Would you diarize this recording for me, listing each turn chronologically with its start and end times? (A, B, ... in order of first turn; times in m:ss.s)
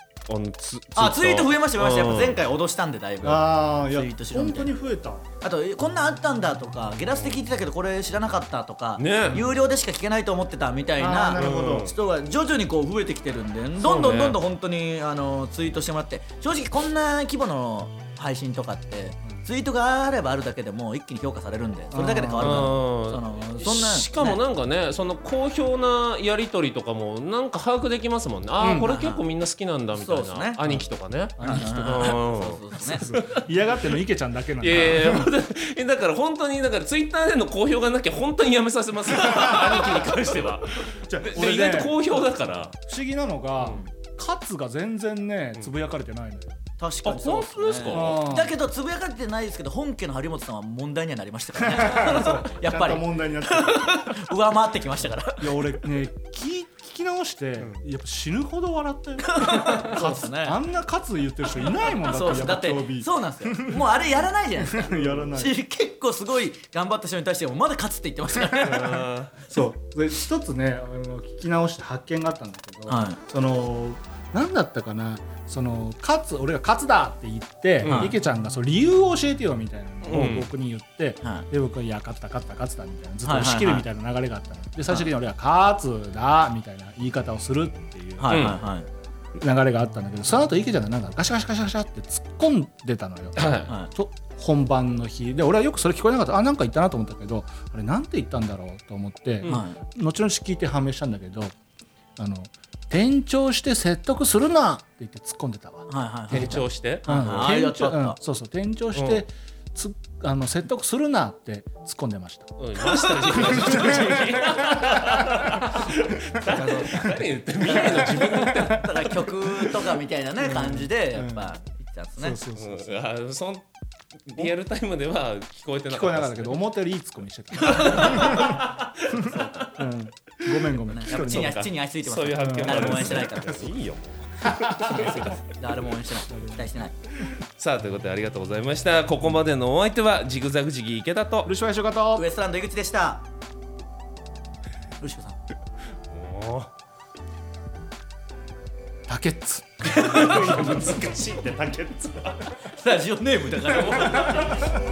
0:00.3-0:02.4 A
0:00.9-0:04.7 B
0:03.2-0:05.2 C
0:05.4-0:24.4 B
0:09.0-0:09.5 A
0:11.0-0:11.9 C
0:11.4-0:11.9 A
0:13.8-0:14.4 A
0:21.9-0:22.7 C
0:22.4-0:33.4 A
0:28.6-0:28.9 C
0:28.7-0:29.2 B
0:29.9-0:30.6 B
0:31.4-0:31.7 C
0:31.4-0:33.1 B
0:32.8-0:35.3 C
0:34.6-0:42.7 A
0:39.3-0:39.8 C
0:41.1-0:42.0 C
0:42.7-0:46.6 C
0:46.8-0:55.6 B
0:47.0-0:48.2 A
0:47.9-0:48.5 C
0:51.6-0:54.0 C
0:55.4-1:04.0 C
0:59.2-1:00.6 B
1:02.0-1:09.0 B
1:04.6-1:05.6 C
1:08.5-1:28.5 C
1:08.6-1:09.4 A
1:12.9-1:13.2 B
1:17.8-1:18.1 A
1:17.8-1:18.1 B
1:20.0-1:20.5 A
1:23.2-1:23.8 B
1:28.2-1:28.9 B
1:28.2-1:28.6 A
1:29.4-1:41.5 C
1:33.4-1:33.7 A
1:39.4-1:39.8 B
1:42.2-1:55.9 C
1:45.9-1:48.2 B
1:46.3-1:47.0 A
1:48.9-1:49.2 A
1:52.6-1:59.3 A
1:53.3-1:53.8 B
1:56.5-1:57.1 B
1:56.9-1:57.2 C
1:57.6-2:02.4 B
1:58.2-1:58.9 C
2:00.4-2:01.5 C
2:02.2-2:03.0 C
2:02.6-2:03.6 A
2:04.2-2:06.6 A
2:05.9-2:08.6 C
2:07.6-2:09.7 A
2:07.7-2:08.5 B
2:09.1-2:11.6 C
2:10.9-2:13.7 B
2:11.1-2:15.3 A
2:12.4-2:13.5 C
2:14.4-2:15.2 C
2:14.8-2:16.9 B
2:16.3-2:16.6 C
2:17.6-2:21.5 A
2:21.4-2:22.2 C
2:22.1-2:23.2 B
2:25.0-2:25.4 B
2:26.1-2:26.7 A
2:29.1-2:30.7 C
2:29.8-2:32.4 A
2:32.7-2:34.6 B
2:34.0-2:34.5 A